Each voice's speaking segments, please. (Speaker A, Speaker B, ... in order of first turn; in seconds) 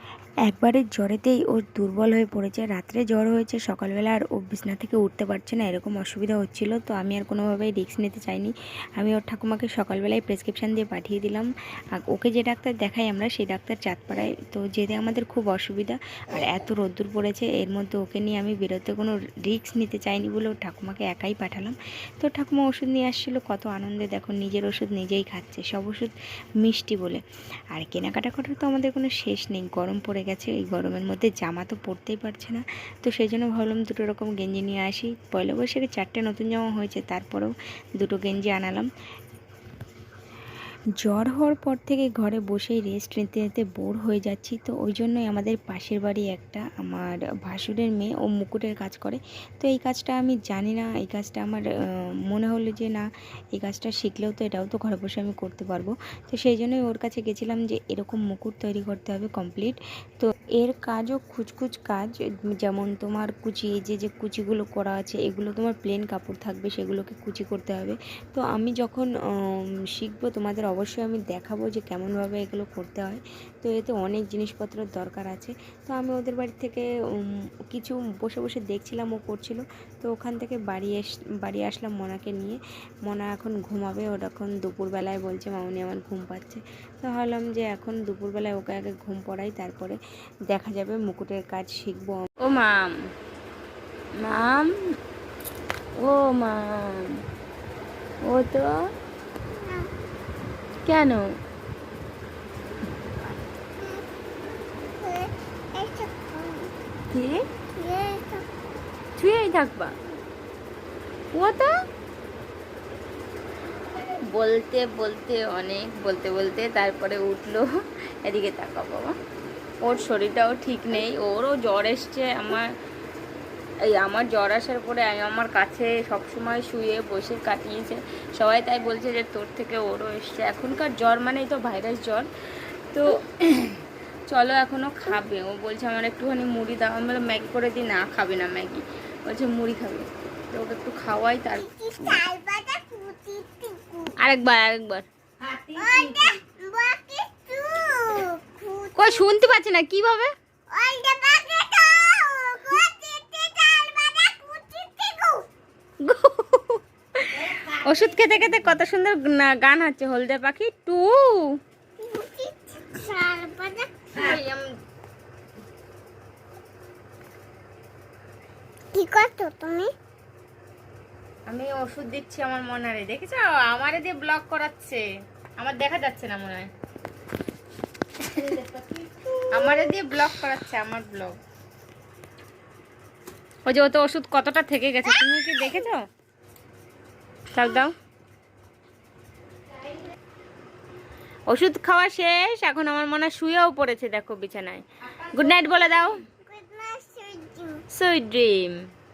Speaker A: 0.5-27.2, 27.7-38.9, 41.0-51.7, 52.3-53.0, 53.5-69.1, 70.0-76.9, 77.7-90.0, 90.5-92.2
Speaker B: 92.4-92.9, 94.2-94.7, 96.0-97.0, 98.2-98.7, 100.9-101.2, 107.1-107.5, 109.2-110.0, 111.3-111.7, 114.3-117.7, 118.2-119.2, 119.8-122.7, 123.8-132.3, 132.9-142.2, 144.2-145.5, 149.0-150.3, 156.0-161.6, 164.1-164.7, 171.5-175.0, 175.6-176.7, 178.2-178.8, 179.5-181.4, 183.7-186.0, 187.5-187.9, 191.5-196.2, 197.9-198.8
Speaker C: 99.5-99.9, 103.8-104.0, 105.0-106.7, 107.8-108.5, 141.6-144.2, 145.8-149.3, 150.7-155.5, 162.0-163.9, 168.9-169.9, 179.7-179.9, 196.4-197.8